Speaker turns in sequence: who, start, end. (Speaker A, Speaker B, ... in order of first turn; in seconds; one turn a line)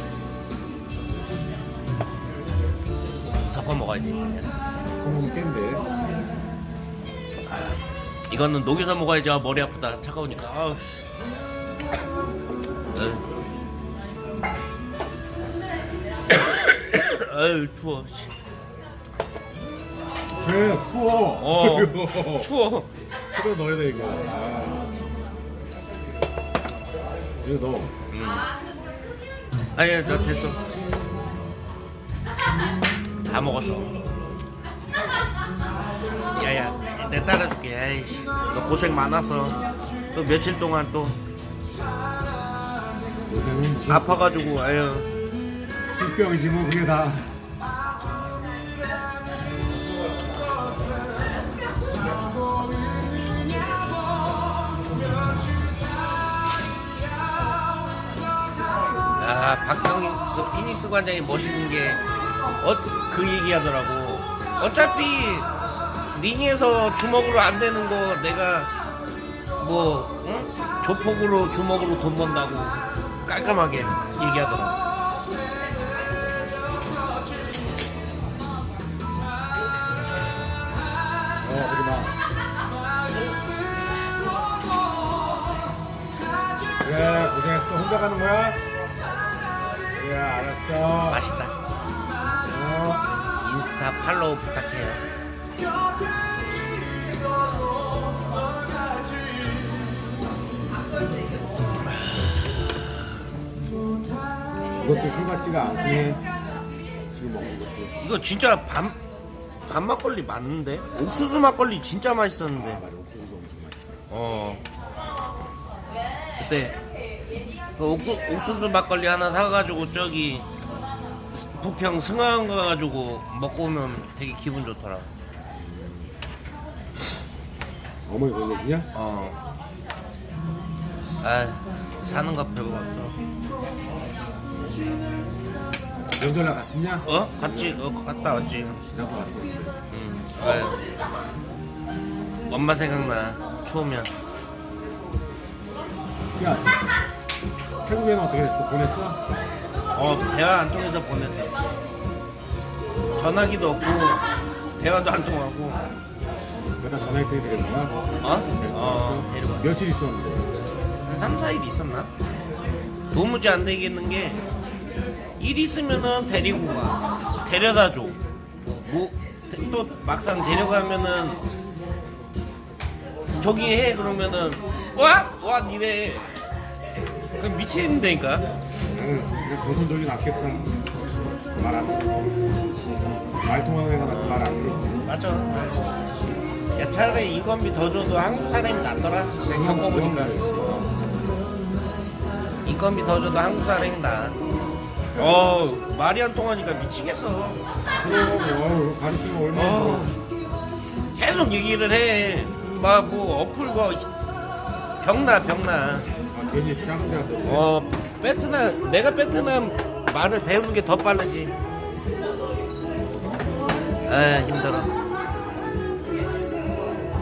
Speaker A: 3.5-4.5
Speaker B: 5.0-5.8
Speaker A: 8.3-11.1
Speaker A: 12.9-13.2
Speaker A: 16.8-18.3
Speaker B: 20.4-22.5
Speaker A: 21.4-22.9
Speaker B: 23.3-24.8
Speaker B: 27.4-27.9
Speaker A: 28.1-28.5
Speaker A: 29.8-30.6
Speaker A: 33.2-33.9
Speaker A: 36.4-39.6
Speaker A: 40.1-41.2
Speaker B: 43.3-44.4
Speaker A: 43.9-45.1
Speaker B: 45.9-47.3
Speaker A: 59.2-62.0
Speaker A: 62.6-65.5
Speaker A: 66.1-68.7
Speaker A: 69.6-74.8
Speaker B: 81.4-82.1
Speaker B: 86.8-88.6
Speaker B: 89.9-91.2
Speaker A: 91.1-91.5
Speaker B: 92.5-93.0
Speaker A: 93.4-95.0
Speaker B: 104.8-106.2
Speaker B: 107.1-107.9
Speaker A: 108.0-109.0
Speaker A: 109.7-112.8
Speaker B: 112.5-114.0
Speaker A: 114.1-114.6
Speaker A: 116.4-116.8
Speaker A: 117.8-120.5
Speaker A: 121.4-125.1
Speaker B: 128.1-128.9
Speaker A: 128.9-129.4
Speaker A: 131.2-133.1
Speaker B: 136.2-137.8
Speaker A: 137.1-138.8
Speaker B: 138.9-139.8
Speaker A: 139.9-140.8
Speaker A: 142.5-144.1
Speaker B: 146.4-146.7
Speaker B: 147.8-149.2
Speaker A: 149.9-151.5
Speaker A: 153.2-154.2
Speaker A: 154.8-155.8
Speaker B: 156.8-160.5
Speaker A: 158.2-159.8
Speaker A: 161.1-162.1
Speaker A: 163.1-164.4
Speaker A: 165.4-168.2
Speaker A: 168.8-171.4
Speaker A: 173.4-176.2
Speaker A: 177.4-178.4
Speaker B: 178.9-180.7
Speaker B: 181.6-182.1
Speaker B: 183.4-184.9
Speaker A: 185.1-185.9
Speaker A: 186.8-190.6
Speaker B: 189.5-190.9
Speaker A: 192.7-194.4
Speaker A: 195.2-197.6
Speaker B: 198.0-200.2
Speaker A: 199.5-200.1
Speaker A: 201.2-204.1
Speaker A: 205.0-206.1
Speaker B: 206.3-207.7
Speaker A: 207.4-211.5
Speaker A: 214.1-214.9